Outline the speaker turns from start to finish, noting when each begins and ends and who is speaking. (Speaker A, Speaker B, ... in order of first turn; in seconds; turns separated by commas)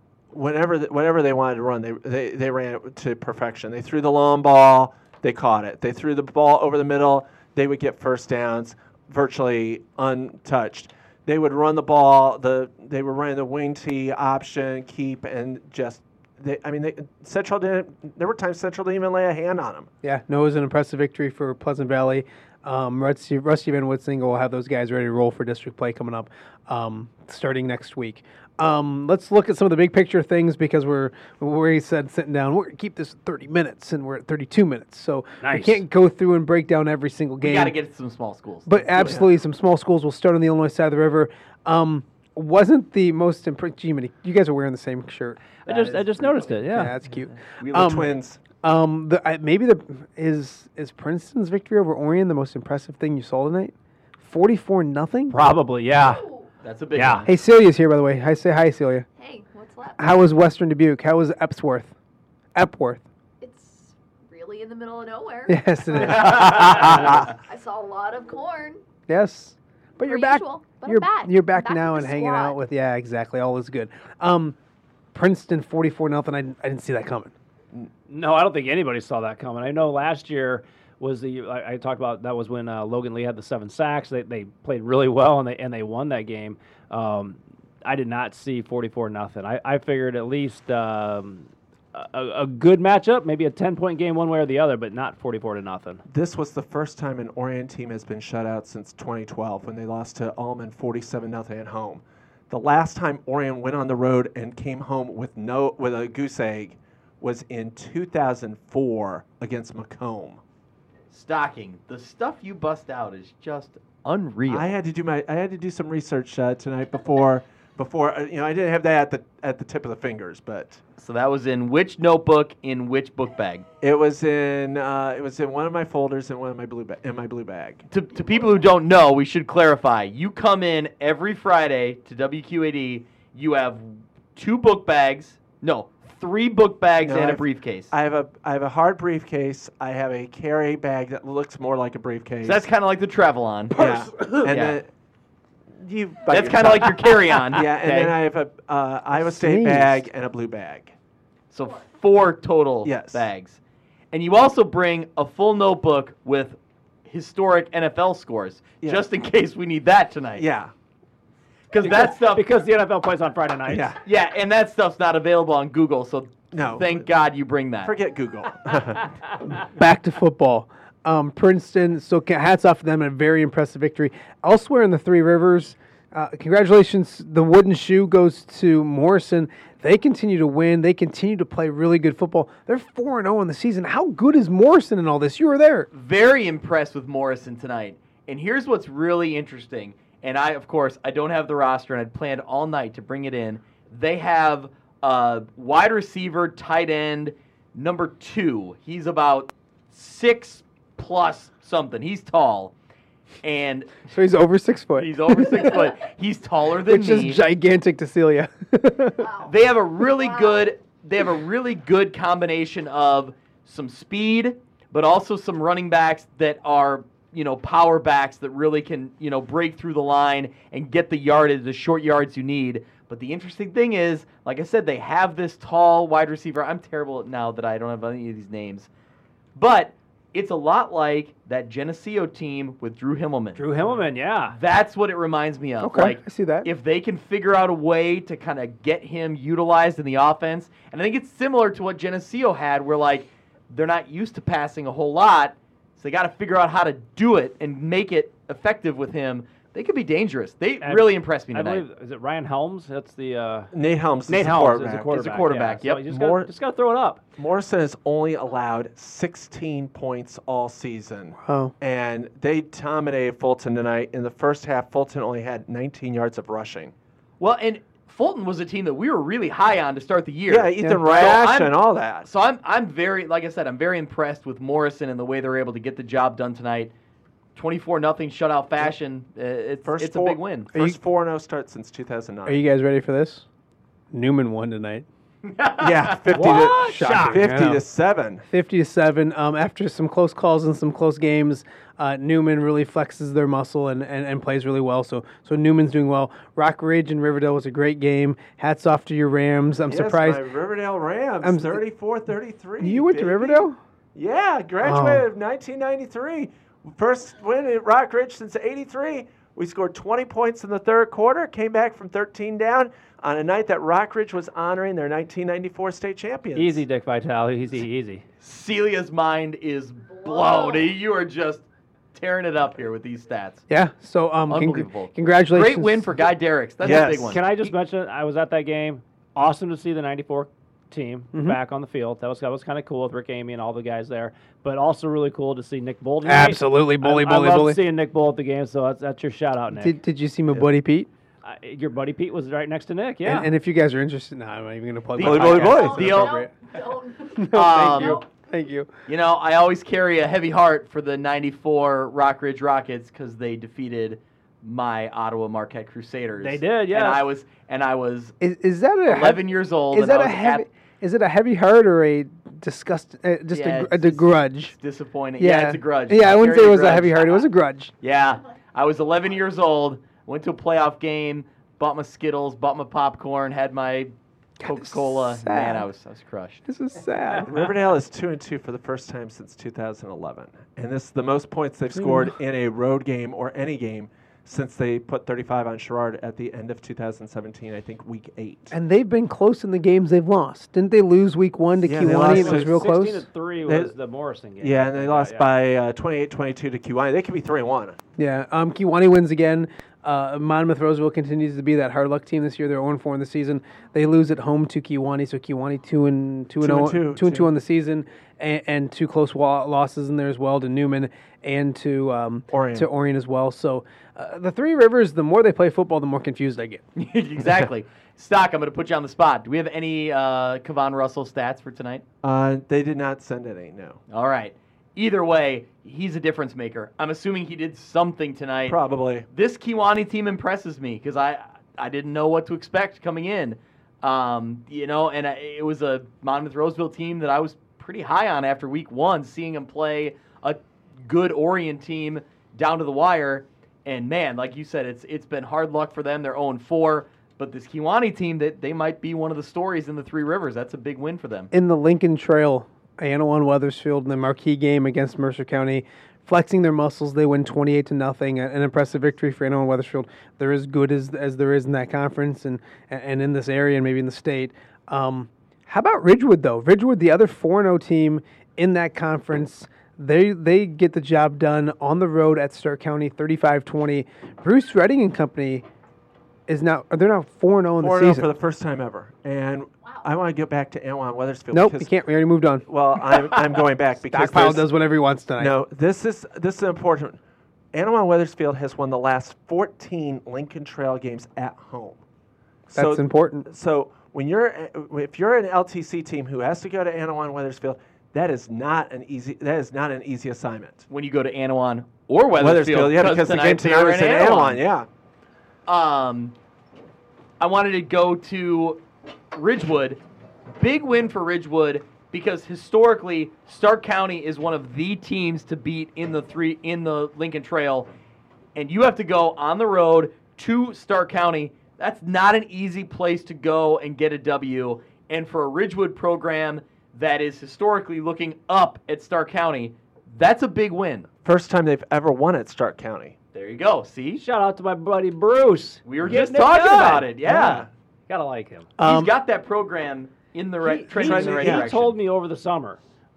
Speaker A: 0.3-19.9, Speaker B: 20.0-37.8, Speaker C: 35.4-35.8, Speaker D: 37.4-39.1, Speaker B: 38.7-48.1, Speaker A: 39.0-39.3, Speaker C: 45.6-47.0, Speaker D: 45.7-46.5, Speaker D: 47.0-48.2, Speaker A: 47.7-48.4, Speaker B: 48.6-55.4, Speaker C: 55.3-56.2, Speaker E: 56.0-56.5, Speaker D: 56.6-57.3, Speaker C: 57.0-57.3, Speaker B: 57.3-59.1, Speaker E: 59.2-60.1, Speaker B: 60.0-61.9, Speaker B: 62.5-63.0, Speaker E: 63.4-68.8, Speaker B: 65.5-67.1, Speaker B: 69.1-74.6, Speaker E: 70.0-72.6, Speaker B: 75.1-77.3, Speaker C: 78.1-96.0, Speaker A: 96.1-110.4, Speaker D: 111.1-114.8, Speaker A: 114.5-120.8, Speaker D: 121.0-123.7, Speaker A: 123.8-127.9, Speaker D: 127.9-137.9, Speaker A: 137.0-142.7, Speaker D: 142.4-143.9, Speaker A: 143.7-144.9, Speaker D: 144.4-144.8, Speaker A: 145.8-150.9, Speaker D: 146.3-148.2, Speaker B: 149.2-150.1, Speaker D: 151.5-153.6, Speaker A: 152.8-153.2, Speaker D: 154.1-160.5, Speaker A: 160.4-160.7, Speaker D: 161.7-162.5, Speaker C: 161.8-163.9, Speaker A: 163.7-164.0, Speaker D: 164.0-167.9, Speaker A: 166.5-167.0, Speaker A: 167.8-169.2, Speaker B: 169.5-185.9, Speaker D: 185.9-202.7, Speaker D: 203.4-204.1, Speaker B: 204.1-205.8, Speaker D: 205.0-207.4, Speaker B: 206.9-209.2, Speaker E: 209.2-209.5, Speaker D: 209.4-228.9, Speaker E: 210.2-210.7, Speaker D: 229.6-233.7, Speaker C: 233.6-234.6, Speaker D: 234.5-251.8, Speaker B: 235.8-236.7, Speaker C: 250.8-253.7, Speaker A: 253.7-255.4, Speaker C: 254.3-257.2, Speaker D: 254.8-256.1, Speaker A: 256.0-256.5, Speaker A: 257.4-266.9, Speaker B: 261.4-261.7, Speaker D: 267.4-276.9, Speaker A: 270.5-272.3, Speaker D: 277.6-280.7, Speaker A: 279.8-282.6, Speaker B: 282.5-283.5, Speaker B: 284.1-285.1, Speaker D: 285.4-286.5, Speaker A: 285.8-288.4, Speaker C: 286.4-287.4, Speaker B: 286.4-287.8, Speaker B: 288.5-300.4, Speaker A: 299.9-316.8, Speaker B: 301.4-301.8, Speaker B: 302.8-303.8, Speaker B: 304.8-305.3, Speaker C: 316.6-318.2, Speaker D: 318.4-323.6, Speaker E: 320.0-320.9, Speaker B: 323.7-326.1, Speaker D: 324.5-327.5, Speaker A: 326.8-327.4, Speaker C: 327.3-340.0, Speaker B: 331.3-331.6, Speaker B: 336.2-337.8, Speaker B: 339.7-341.1, Speaker C: 341.4-343.5, Speaker B: 343.2-346.5, Speaker D: 345.2-346.4, Speaker A: 345.2-346.3, Speaker E: 345.6-348.2, Speaker B: 347.4-348.9, Speaker D: 347.5-348.2, Speaker D: 349.1-358.4, Speaker C: 356.4-357.2, Speaker B: 358.4-364.8, Speaker D: 359.1-360.7, Speaker D: 363.5-367.5, Speaker B: 365.4-367.9, Speaker D: 368.0-376.6, Speaker B: 374.6-375.9, Speaker B: 376.7-377.6, Speaker A: 377.4-388.7, Speaker B: 381.9-382.3, Speaker B: 388.7-393.3, Speaker A: 391.8-392.8, Speaker C: 392.1-395.5, Speaker A: 393.7-393.9, Speaker A: 394.6-398.0, Speaker B: 398.2-416.8, Speaker A: 406.6-407.5, Speaker A: 412.5-412.9, Speaker D: 417.0-422.1, Speaker A: 422.2-424.0, Speaker D: 424.1-428.8, Speaker A: 428.7-429.3, Speaker D: 429.3-451.5, Speaker B: 451.5-475.7, Speaker B: 476.5-478.3, Speaker A: 477.8-481.9, Speaker E: 479.8-480.1, Speaker B: 481.5-482.6, Speaker A: 482.7-484.7, Speaker B: 484.1-485.6, Speaker A: 485.4-487.2, Speaker A: 487.7-492.0, Speaker A: 492.7-500.9, Speaker B: 492.7-493.5, Speaker D: 500.9-504.6, Speaker A: 502.4-504.9, Speaker D: 505.7-506.4, Speaker D: 507.4-510.0, Speaker D: 510.6-517.9, Speaker D: 518.5-531.1, Speaker A: 531.2-533.1, Speaker D: 533.3-534.2, Speaker C: 534.2-537.1, Speaker D: 535.9-537.7, Speaker B: 537.3-537.6, Speaker A: 537.3-537.7, Speaker C: 538.1-538.7, Speaker B: 538.8-539.1, Speaker D: 538.8-542.0, Speaker C: 540.6-542.8, Speaker A: 541.0-541.7